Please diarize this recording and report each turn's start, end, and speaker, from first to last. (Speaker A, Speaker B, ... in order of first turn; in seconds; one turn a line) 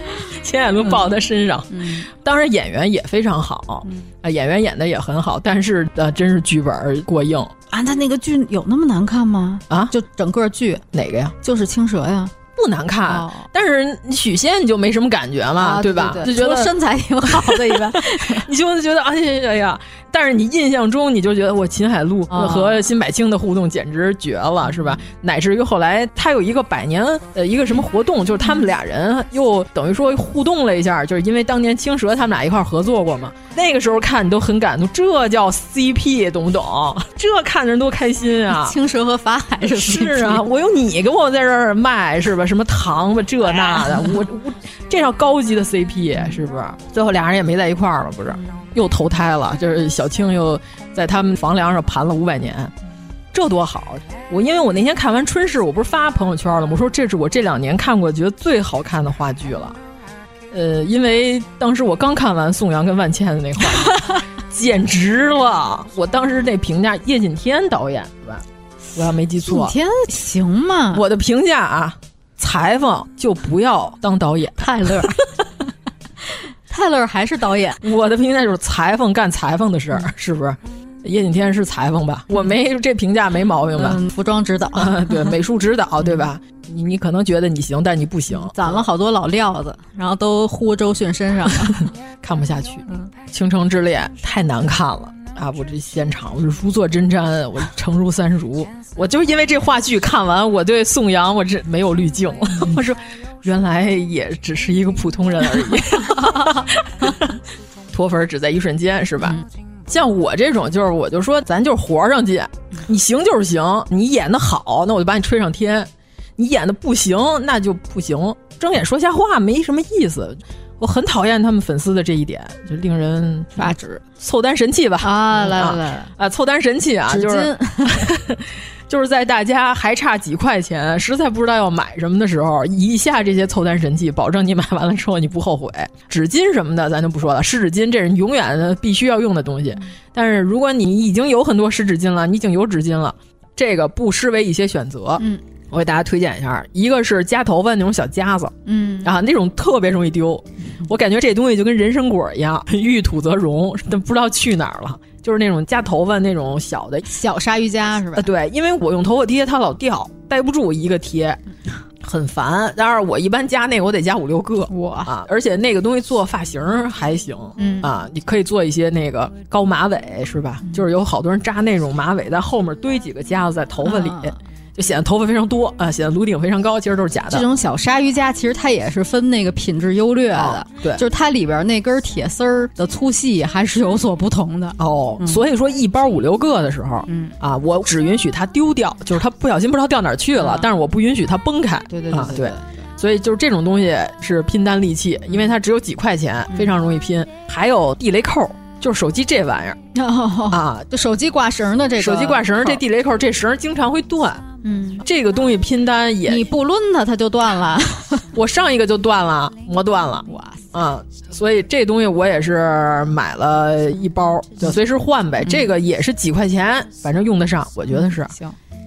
Speaker A: 0.2-7.5
Speaker B: 1.7-2.1
Speaker B: 7.7-10.8
Speaker A: 10.9-11.3
Speaker B: 11.4-12.3
Speaker A: 12.6-38.8
Speaker B: 13.1-13.5
Speaker B: 15.6-18.5
Speaker B: 22.3-22.9
Speaker B: 38.5-40.4
Speaker A: 39.6-52.7
Speaker B: 43.8-44.0
Speaker A: 53.3-59.8
Speaker A: 60.5-69.8
Speaker B: 69.5-71.0
Speaker A: 70.9-75.1
Speaker B: 74.6-75.3
Speaker B: 76.7-77.8
Speaker A: 77.8-84.0
Speaker B: 83.8-85.4
Speaker A: 84.8-88.8
Speaker B: 88.4-91.9
Speaker A: 92.2-107.4
Speaker A: 107.9-157.1
Speaker B: 123.6-124.0
Speaker B: 125.0-126.1
Speaker B: 127.1-128.1
Speaker B: 148.7-149.2
Speaker B: 157.1-158.3
Speaker A: 158.1-161.4
Speaker A: 162.0-177.5
Speaker B: 164.7-165.1
Speaker B: 167.6-167.9
Speaker B: 173.8-174.4
Speaker B: 177.3-185.4
Speaker A: 180.3-181.0
Speaker A: 184.8-199.8
Speaker B: 187.1-187.3
Speaker B: 190.4-190.7
Speaker B: 191.9-192.9
Speaker B: 199.9-202.8
Speaker A: 200.5-200.9
Speaker A: 202.0-204.5
Speaker B: 204.6-205.1
Speaker A: 205.0-206.5
Speaker B: 206.3-208.3
Speaker A: 208.3-218.3
Speaker B: 210.3-210.7
Speaker B: 217.9-218.6